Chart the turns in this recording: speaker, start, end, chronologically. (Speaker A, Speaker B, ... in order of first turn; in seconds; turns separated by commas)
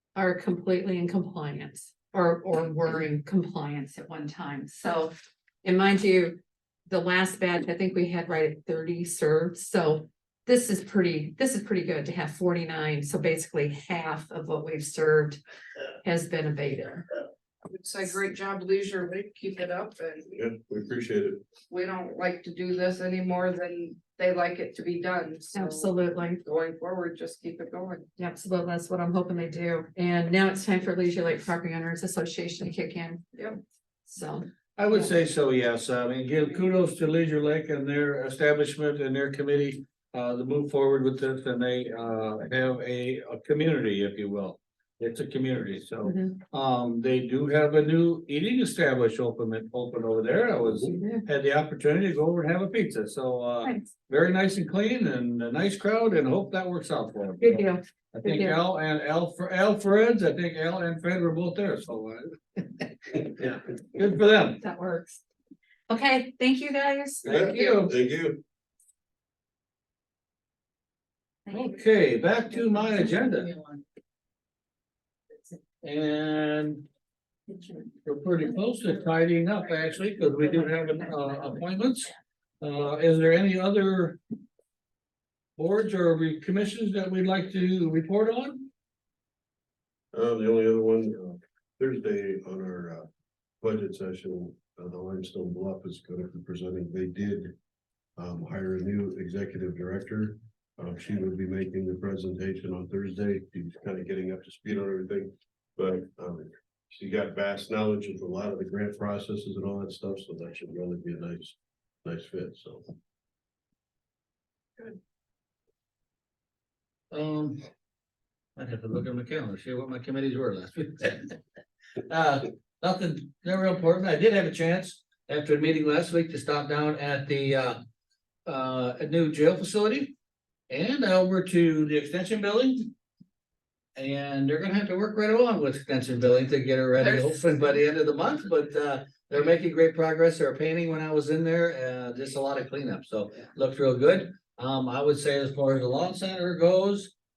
Speaker A: 0.1-15.4, Speaker A: 16.0-17.1, Speaker B: 17.7-20.3, Speaker C: 20.3-21.4, Speaker B: 21.7-25.9, Speaker A: 25.5-26.4, Speaker B: 26.4-28.1, Speaker A: 28.2-33.2, Speaker A: 34.0-35.1, Speaker D: 34.8-64.6, Speaker A: 46.0-46.4, Speaker A: 57.4-58.6, Speaker A: 64.6-65.2, Speaker A: 65.9-67.9, Speaker D: 67.2-67.9, Speaker C: 67.2-68.4, Speaker D: 71.5-73.5, Speaker D: 75.8-76.8, Speaker D: 78.0-84.2, Speaker D: 85.6-88.7, Speaker C: 90.1-93.1, Speaker C: 93.6-97.5, Speaker C: 98.2-112.9, Speaker D: 117.1-117.6, Speaker D: 118.6-121.4, Speaker D: 122.1-127.8, Speaker D: 128.5-130.1, Speaker D: 130.7-132.9, Speaker D: 134.0-147.1